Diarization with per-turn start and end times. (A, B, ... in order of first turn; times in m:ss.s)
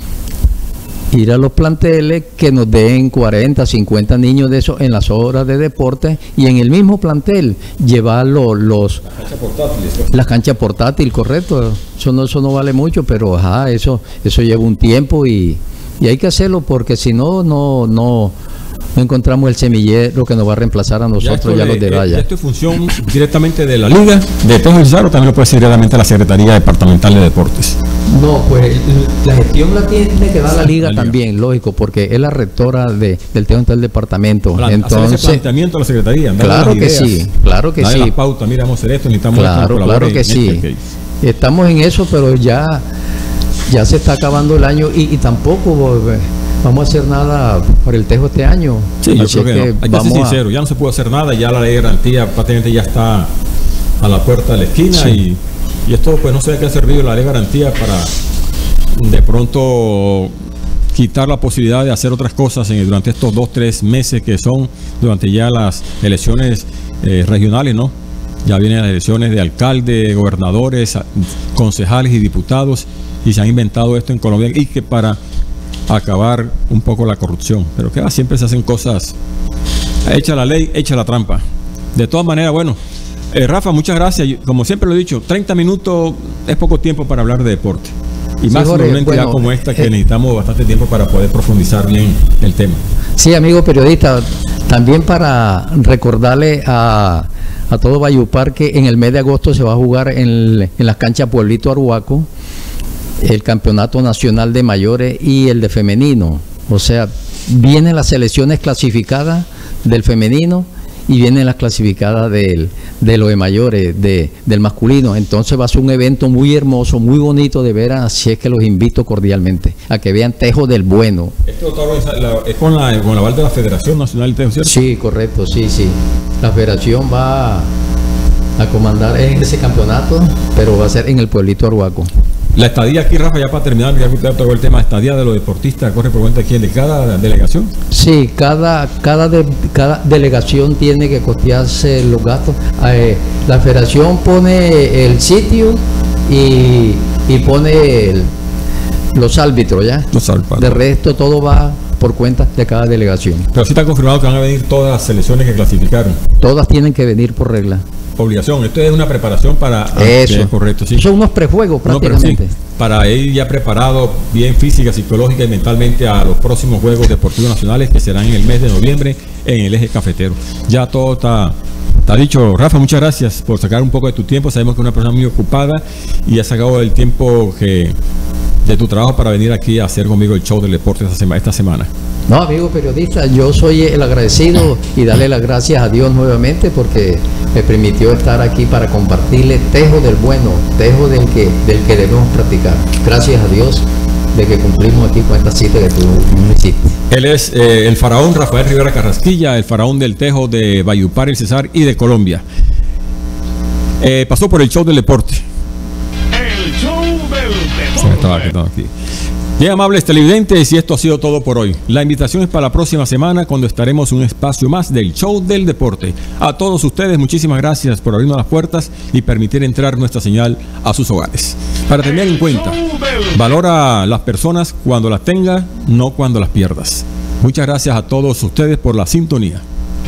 0:01.1-0:09.0 A
0:09.0-0:10.3 B
0:10.1-0:18.4 A
0:19.0-0:22.2 A
0:21.2-0:27.8 B
0:28.1-0:35.4 A
0:30.7-0:31.2 B
0:34.6-0:40.8 B
0:36.4-0:38.2 A
0:39.3-0:40.6 A
0:41.2-0:42.9 A
0:43.7-0:50.4 A
0:49.0-0:53.3 B
0:54.0-0:58.1 B
0:58.9-1:00.3 B
1:00.9-1:07.9 B
1:08.4-1:15.2 B
1:15.9-1:19.2 B
1:20.0-1:21.4 B
1:22.0-1:22.8 B
1:23.3-1:32.8 B
1:28.5-1:29.9 A
1:33.2-1:42.3 A
1:43.2-2:01.3 A
2:01.4-2:04.8 B
2:04.6-2:07.7 A
2:08.6-2:12.1 A
2:12.6-2:17.7 B
2:17.9-2:28.3 A
2:29.1-2:33.5 A
2:30.1-2:30.8 B
2:33.5-2:36.2 B
2:36.4-2:37.8 A
2:38.2-2:41.1 B
2:40.0-2:42.5 A
2:41.8-2:58.0 B
2:58.6-3:01.9 B
3:02.3-3:17.0 A
3:17.1-3:22.4 B
3:24.0-3:25.5 B
3:26.3-3:28.5 C
3:28.0-3:28.9 B
3:29.6-3:42.8 B
3:42.0-3:43.5 C
3:43.3-3:49.6 B